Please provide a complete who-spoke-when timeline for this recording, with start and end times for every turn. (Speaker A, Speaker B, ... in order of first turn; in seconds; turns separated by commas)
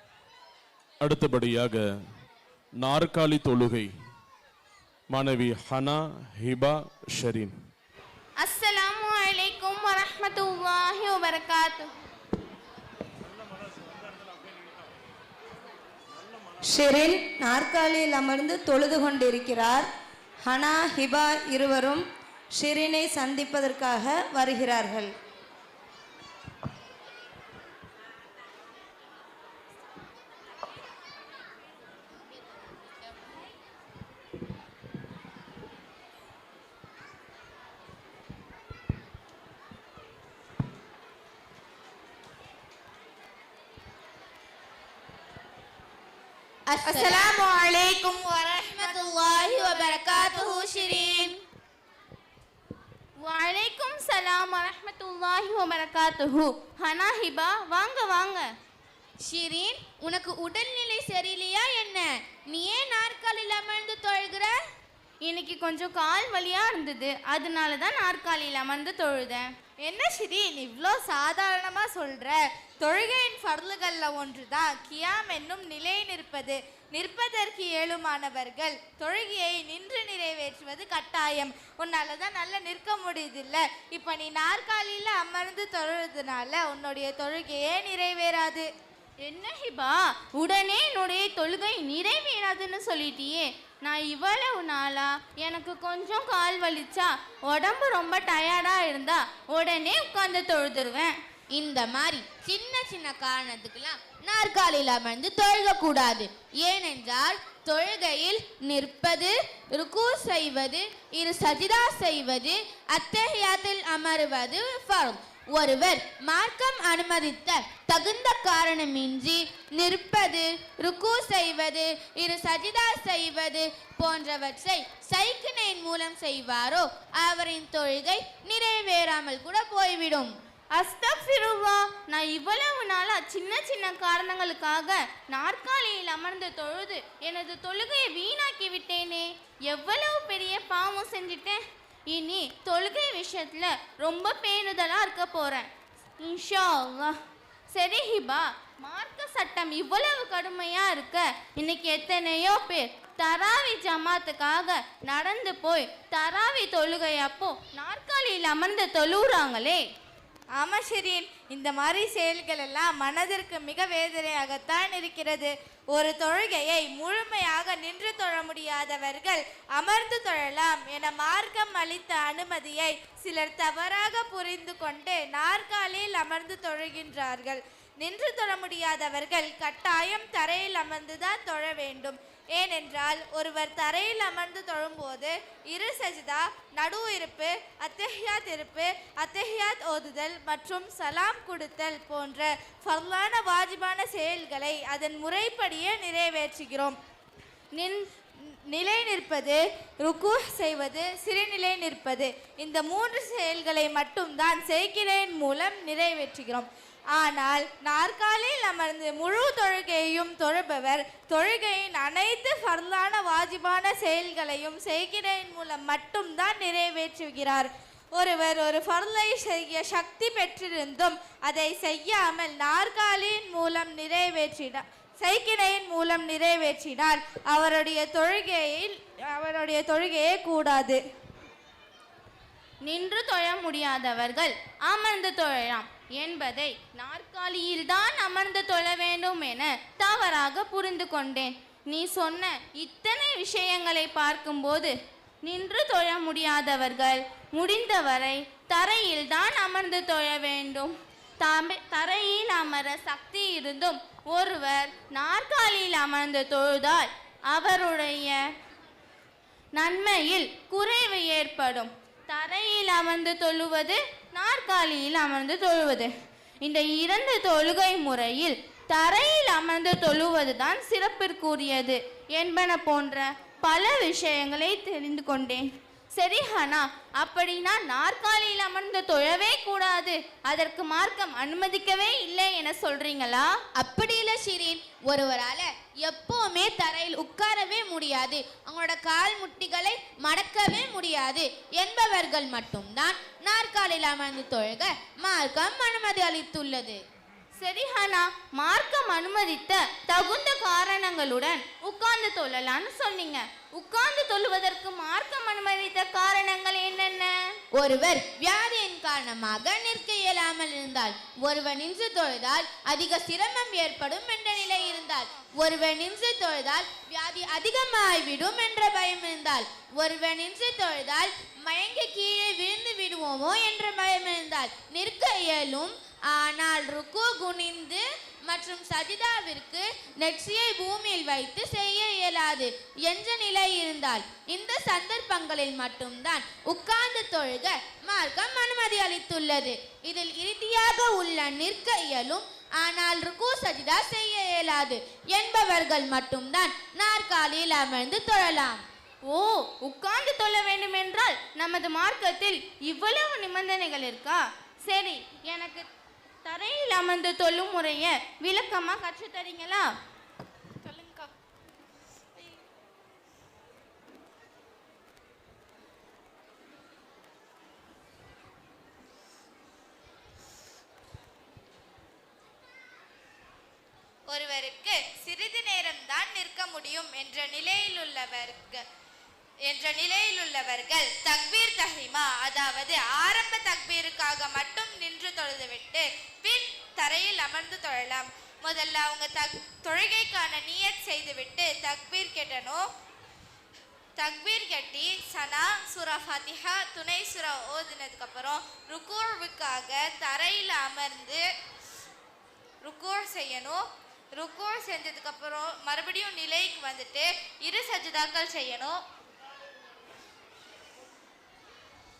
Speaker A: 1.0-1.9, Speaker A: 2.8-3.9, Speaker A: 5.1-7.5, Speaker B: 8.4-11.9, Speaker C: 16.6-19.9, Speaker C: 20.4-25.1, Speaker D: 46.7-47.4, Speaker E: 46.8-50.5, Speaker D: 48.6-51.4, Speaker B: 53.2-58.5, Speaker D: 59.2-64.5, Speaker B: 65.2-69.4, Speaker E: 69.8-88.7, Speaker B: 89.2-101.2, Speaker D: 101.5-130.3, Speaker B: 130.7-147.2, Speaker B: 147.7-159.8, Speaker E: 160.6-196.9, Speaker B: 197.7-198.0, Speaker E: 198.7-231.0, Speaker B: 232.8-244.9, Speaker B: 245.4-258.4, Speaker B: 259.7-266.1, Speaker B: 266.6-283.5, Speaker D: 283.8-297.0, Speaker B: 297.6-307.6, Speaker D: 307.7-348.8, Speaker B: 349.2-355.9, Speaker B: 356.4-359.9, Speaker E: 360.8-361.3, Speaker E: 374.3-378.8, Speaker E: 379.7-392.8, Speaker E: 394.2-401.4, Speaker E: 402.8-403.8, Speaker E: 404.3-408.9